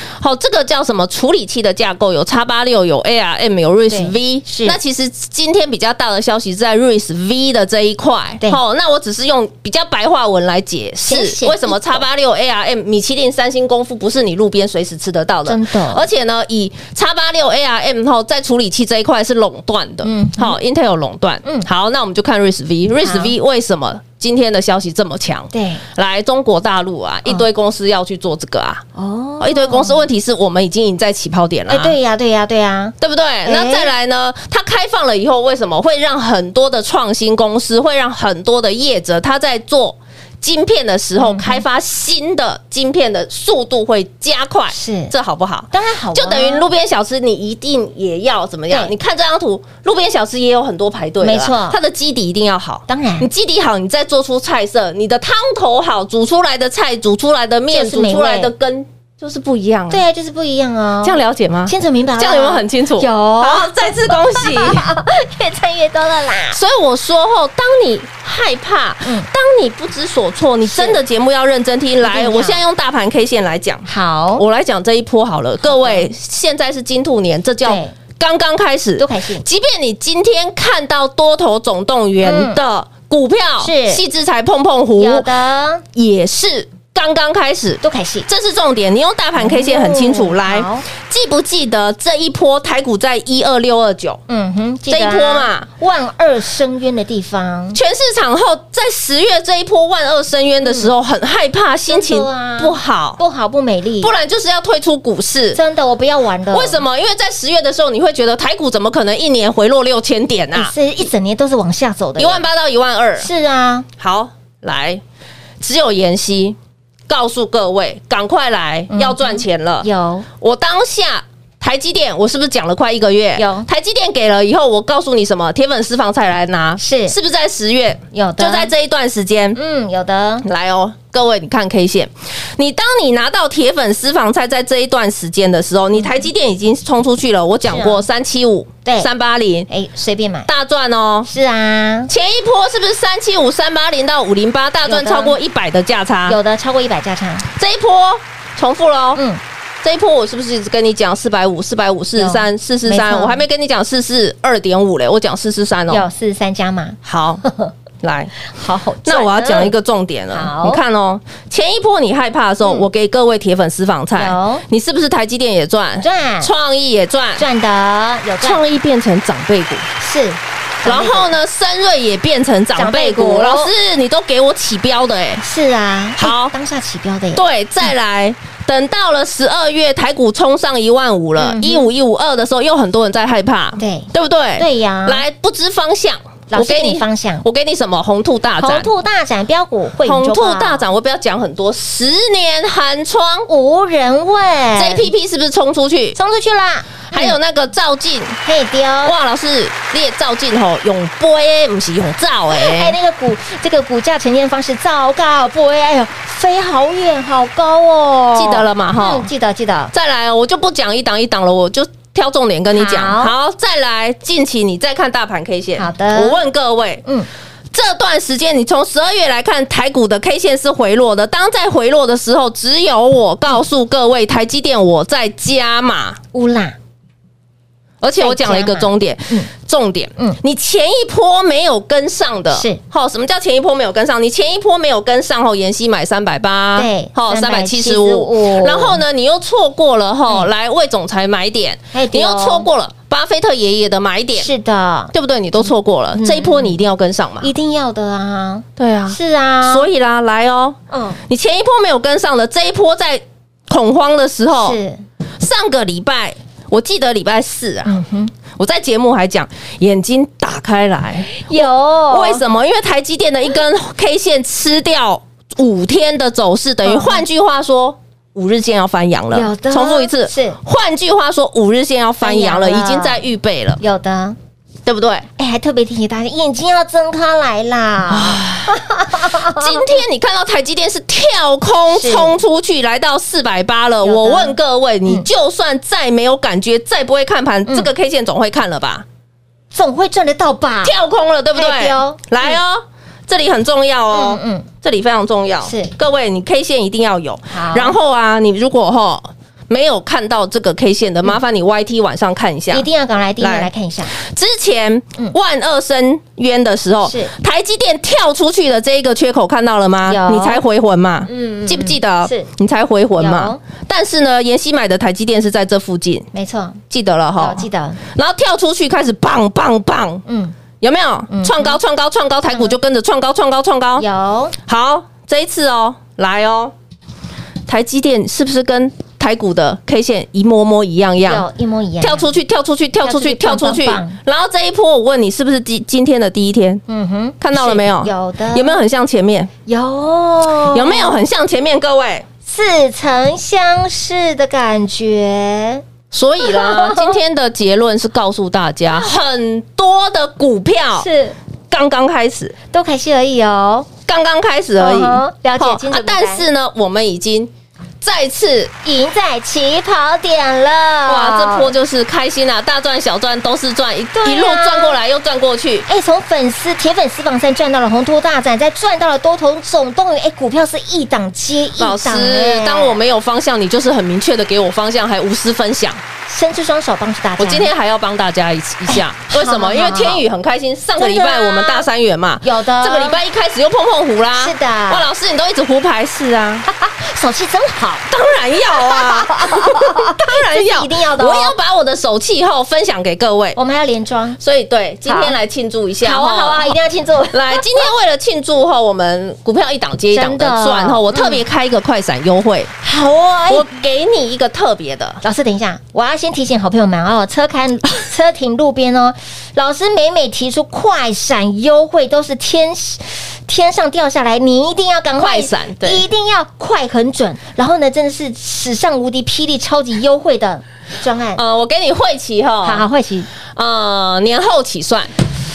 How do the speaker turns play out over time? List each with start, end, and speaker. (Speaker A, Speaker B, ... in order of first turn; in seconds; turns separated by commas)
Speaker A: 0.2-28.8, Speaker B: 3.9-4.8, Speaker B: 11.1-12.0, Speaker B: 15.4-16.0, Speaker B: 20.0-20.6, Speaker B: 23.0-23.3, Speaker B: 25.5-25.8, Speaker B: 28.9-30.0, Speaker A: 29.4-31.9, Speaker B: 31.7-33.9, Speaker A: 33.0-60.0, Speaker B: 41.2-41.6, Speaker B: 44.7-45.1, Speaker B: 45.7-46.7, Speaker B: 51.2-51.8, Speaker B: 52.9-53.3, Speaker B: 57.7-58.5, Speaker B: 59.9-66.6, Speaker A: 61.0-64.8, Speaker A: 66.5-85.3, Speaker B: 70.6-71.0, Speaker B: 72.0-72.6, Speaker B: 73.8-74.4, Speaker B: 75.6-76.1, Speaker B: 77.6-77.9, Speaker B: 79.0-79.4, Speaker B: 82.2-82.6, Speaker B: 83.6-84.0, Speaker B: 85.0-85.8, Speaker A: 86.0-94.2, Speaker B: 87.8-88.3, Speaker B: 89.4-90.8, Speaker B: 94.3-97.8, Speaker A: 94.9-95.7, Speaker A: 97.7-103.2, Speaker B: 100.6-100.9, Speaker B: 101.9-104.1, Speaker A: 104.0-105.6, Speaker B: 105.5-106.8, Speaker A: 106.5-110.7, Speaker B: 110.5-112.4, Speaker A: 112.2-113.3, Speaker B: 113.2-113.9, Speaker A: 114.0-115.0, Speaker A: 115.6-116.5, Speaker A: 117.1-119.9, Speaker B: 118.9-120.2, Speaker A: 120.4-129.6, Speaker B: 123.3-123.7, Speaker B: 126.8-127.1, Speaker B: 128.1-128.7, Speaker B: 129.5-130.4, Speaker A: 130.4-139.7, Speaker B: 135.9-136.3, Speaker B: 137.7-138.0, Speaker B: 139.7-140.5, Speaker A: 140.5-141.3, Speaker B: 141.2-142.1, Speaker A: 142.1-146.4, Speaker B: 144.8-145.3, Speaker B: 146.3-147.5, Speaker A: 147.5-149.2, Speaker A: 149.8-156.0, Speaker B: 152.2-153.4, Speaker B: 155.9-157.7, Speaker A: 157.0-157.4, Speaker A: 158.0-158.3, Speaker B: 158.4-159.7, Speaker A: 159.0-167.4, Speaker B: 160.3-160.8, Speaker B: 164.1-164.6, Speaker B: 166.0-166.5, Speaker B: 167.4-168.6, Speaker A: 168.4-169.9, Speaker B: 170.0-171.3, Speaker A: 170.8-175.4, Speaker B: 172.7-173.7, Speaker B: 175.4-177.4, Speaker A: 176.2-176.5, Speaker A: 177.3-188.9, Speaker B: 181.4-181.9, Speaker B: 183.8-185.2, Speaker B: 186.5-187.4, Speaker B: 188.6-190.8, Speaker A: 190.0-193.5, Speaker B: 193.5-195.1, Speaker A: 194.8-196.2, Speaker B: 196.1-197.4, Speaker A: 197.1-198.4, Speaker B: 198.4-199.1, Speaker A: 199.0-202.9, Speaker B: 202.5-209.9, Speaker A: 208.3-209.3, Speaker A: 209.9-217.0, Speaker B: 212.7-213.3, Speaker B: 215.8-216.4, Speaker A: 217.7-226.2, Speaker B: 226.3-226.8, Speaker A: 228.0-244.5, Speaker B: 228.2-229.5, Speaker B: 232.5-232.8, Speaker B: 236.8-239.0, Speaker B: 241.9-242.7, Speaker B: 244.4-246.8, Speaker A: 245.1-247.5, Speaker B: 247.4-249.9, Speaker A: 248.8-250.8, Speaker B: 250.9-251.2, Speaker A: 251.3-254.8, Speaker B: 254.5-255.0, Speaker A: 255.4-273.8, Speaker B: 257.9-258.3, Speaker B: 261.3-262.4, Speaker B: 266.8-267.2, Speaker B: 269.3-270.6, Speaker B: 272.2-273.2, Speaker B: 273.8-274.4, Speaker A: 274.9-275.3, Speaker B: 275.4-279.9, Speaker A: 278.1-289.0, Speaker B: 281.9-282.4, Speaker B: 284.0-285.3, Speaker B: 289.7-290.9, Speaker A: 290.8-302.9, Speaker B: 291.5-292.6, Speaker B: 294.1-294.7, Speaker B: 295.6-295.9, Speaker B: 297.5-297.9, Speaker B: 302.7-304.1, Speaker A: 303.4-316.3, Speaker B: 307.0-307.3, Speaker B: 310.1-310.6, Speaker B: 311.3-312.5, Speaker B: 313.2-313.6, Speaker B: 316.3-316.8, Speaker A: 316.9-320.2, Speaker B: 317.4-318.0, Speaker B: 320.2-320.6, Speaker A: 320.8-324.1, Speaker B: 321.3-321.8, Speaker B: 322.5-322.7, Speaker B: 324.0-324.6, Speaker A: 324.6-326.7, Speaker A: 327.7-331.4, Speaker B: 331.2-332.3, Speaker A: 332.0-336.8, Speaker B: 333.0-334.2, Speaker B: 336.9-338.8, Speaker A: 337.4-339.5, Speaker B: 339.7-341.2, Speaker A: 340.7-342.2, Speaker B: 342.4-345.8, Speaker A: 346.1-351.1, Speaker B: 346.4-347.2, Speaker B: 350.9-351.4, Speaker A: 351.7-352.5, Speaker B: 352.7-353.9, Speaker A: 354.1-358.7, Speaker B: 354.8-356.4, Speaker B: 358.8-361.7, Speaker A: 361.1-365.9, Speaker B: 364.1-365.0, Speaker B: 365.9-373.0, Speaker A: 371.8-376.0, Speaker B: 376.3-377.7, Speaker A: 377.4-386.6, Speaker B: 378.9-380.2, Speaker B: 381.0-381.9, Speaker B: 382.4-383.2, Speaker B: 384.4-385.1, Speaker B: 386.7-388.1, Speaker A: 388.1-393.6, Speaker B: 388.6-391.5, Speaker B: 393.6-394.4, Speaker A: 394.4-396.7, Speaker B: 395.1-395.4, Speaker B: 396.0-397.6, Speaker A: 397.3-402.7, Speaker B: 400.1-401.4, Speaker B: 402.8-403.6, Speaker A: 403.5-405.2, Speaker B: 405.2-421.4, Speaker A: 415.2-416.0, Speaker A: 421.4-422.9, Speaker B: 422.6-423.3, Speaker A: 423.5-425.1